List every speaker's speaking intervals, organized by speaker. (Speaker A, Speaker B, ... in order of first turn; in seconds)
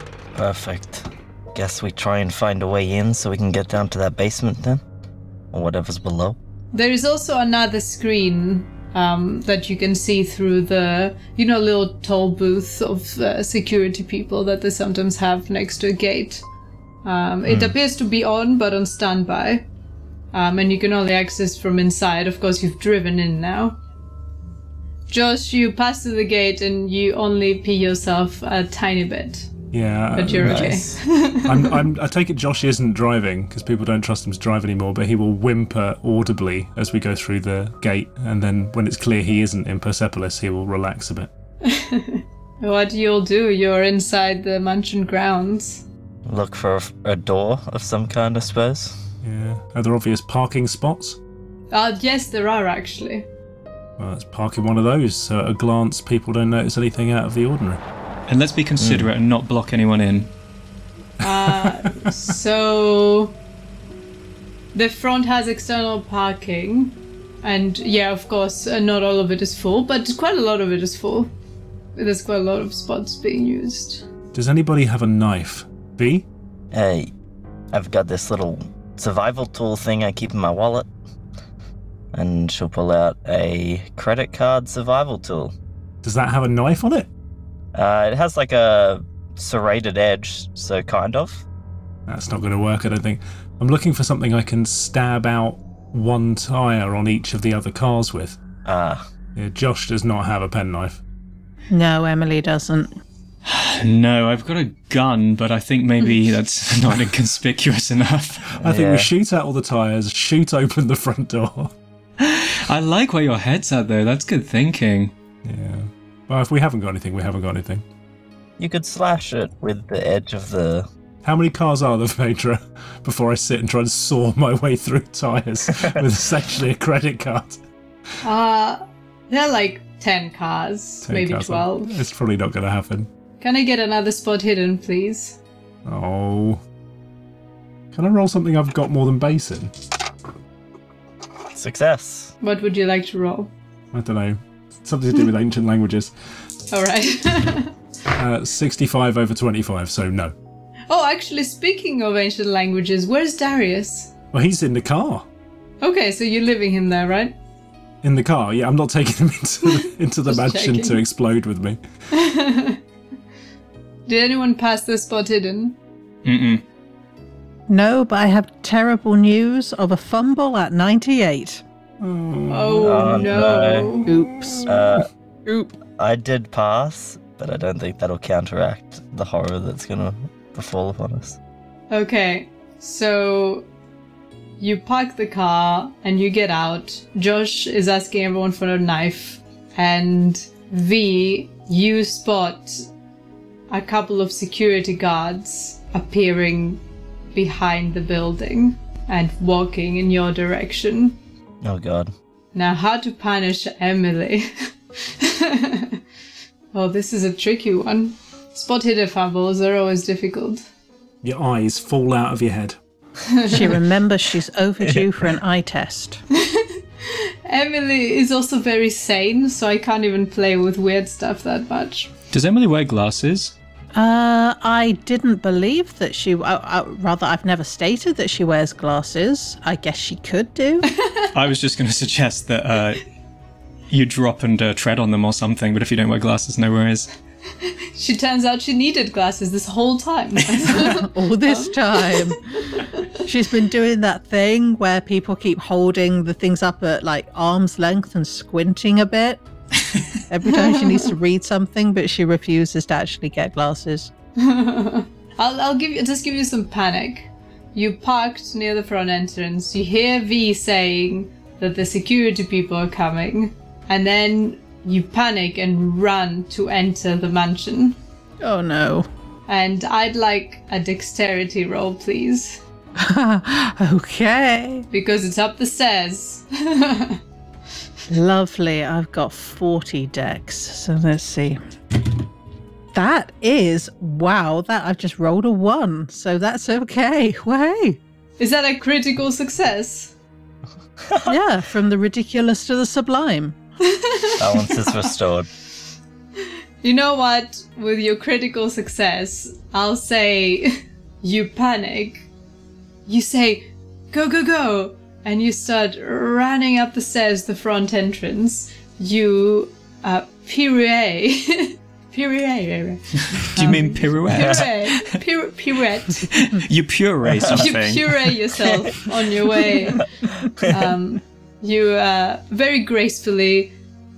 Speaker A: 0.3-4.8, 5.5-6.4, 17.5-17.7, 30.4-30.9, 46.2-49.0, 58.8-59.1, 76.7-77.1, 77.7-80.9, 82.1-85.5, 87.7-91.4, 98.6-99.1, 108.6-109.1, 118.6-120.9, 141.5-142.3, 172.8-173.9, 174.6-175.1, 176.0-181.4, 201.6-202.1, 291.0-291.3, 294.4-295.5
Speaker B: 6.7-16.4, 17.0-19.6, 20.3-23.8, 25.1-29.5, 30.1-31.8, 41.6-45.8, 51.7-53.3, 61.2-63.3, 64.7-71.3, 72.0-74.0, 128.2-131.9, 133.4-135.4, 142.4-143.5, 146.7-147.7, 150.9-154.1, 155.8-157.3, 160.3-161.0, 162.1-162.8, 164.1-165.8, 172.5-174.1, 181.9-183.7, 184.6-192.8, 193.7-196.8, 197.3-201.2, 202.5-206.0, 206.7-210.6, 213.3-213.7, 216.3-222.1, 231.0-231.3, 237.9-243.1, 250.5-251.1, 254.4-268.0, 269.5-272.6, 274.9-277.2, 288.4-290.1, 293.8-294.8, 296.8-302.2, 303.1-316.3, 317.5-320.1, 320.6-323.7
Speaker C: 29.7-30.9, 31.4-41.3, 49.2-51.2, 54.0-57.8, 61.2-62.1, 74.3-76.3, 86.0-87.1, 92.1-98.4, 99.3-101.0, 108.6-111.7, 115.4-117.8, 121.2-127.6, 131.0-133.1, 135.8-136.6, 137.9-139.7, 143.9-146.1, 148.2-150.3, 154.3-155.2, 158.0-161.8, 172.0-172.8, 211.2-212.8
Speaker D: 58.3-60.3, 103.4-108.5, 112.2-115.1, 166.2-166.6, 222.3-223.5, 231.3-233.0, 233.9-237.1, 313.3-315.1, 316.2-318.4
Speaker E: 101.7-102.9, 167.7-171.6, 174.1-174.8, 175.4-175.7, 213.5-216.2, 223.9-230.9, 240.7-249.4, 250.3-254.1, 268.4-269.1, 272.9-274.9, 278.1-281.6, 282.9-288.0, 291.2-293.6, 313.6-313.8